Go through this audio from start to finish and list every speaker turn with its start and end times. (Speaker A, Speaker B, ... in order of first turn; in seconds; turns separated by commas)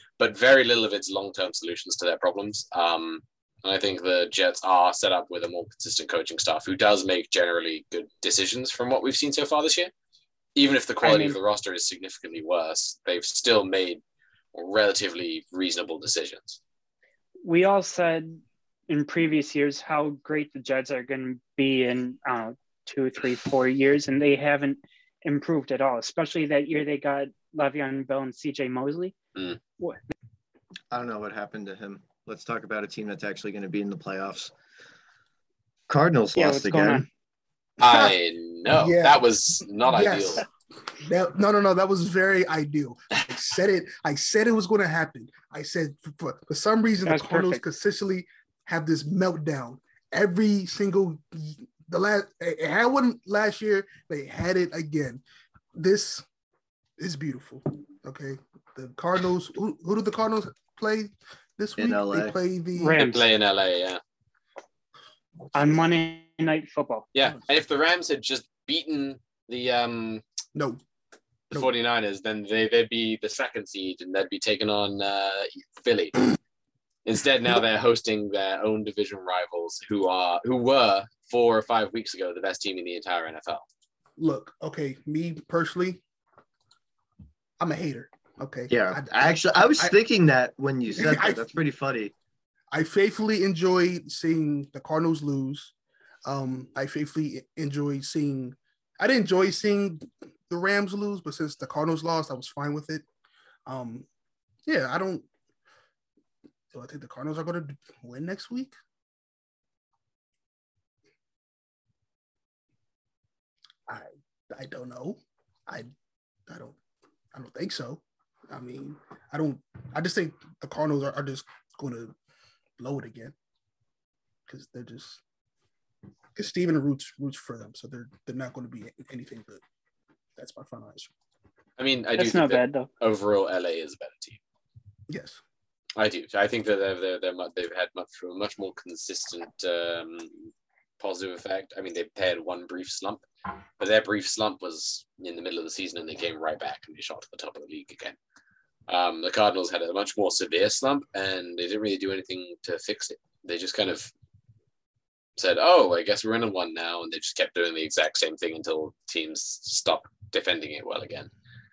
Speaker A: 0.2-9.9, Speaker A: 10.6-14.0, Speaker B: 11.0-11.4, Speaker A: 14.5-16.6, Speaker B: 17.4-29.1, Speaker C: 30.9-34.5, Speaker C: 35.9-37.0, Speaker B: 36.4-37.1, Speaker D: 37.8-38.1, Speaker A: 37.8-40.4, Speaker D: 38.7-40.4, Speaker D: 41.0-55.2, Speaker B: 47.0-47.6, Speaker D: 55.7-56.2, Speaker D: 57.0-63.0, Speaker C: 61.8-62.3, Speaker B: 62.8-63.2, Speaker A: 63.0-64.0, Speaker B: 65.5-67.1, Speaker A: 67.1-70.2, Speaker D: 70.5-70.8, Speaker A: 71.5-76.3, Speaker A: 77.0-83.7, Speaker D: 84.2-86.0, Speaker D: 87.6-89.9, Speaker C: 88.7-92.1, Speaker D: 91.0-91.5, Speaker D: 92.7-95.7, Speaker D: 96.2-103.0, Speaker D: 103.7-104.1, Speaker D: 104.7-105.3, Speaker D: 106.7-108.7, Speaker D: 113.9-115.9, Speaker D: 116.5-116.8, Speaker D: 117.3-122.1, Speaker D: 122.8-123.3, Speaker D: 124.5-125.2, Speaker D: 126.3-129.6, Speaker D: 130.3-131.1, Speaker A: 131.8-134.4, Speaker B: 132.2-132.9, Speaker D: 135.1-135.4, Speaker A: 135.9-143.2, Speaker A: 143.8-148.2, Speaker A: 148.9-154.1, Speaker A: 155.4-161.3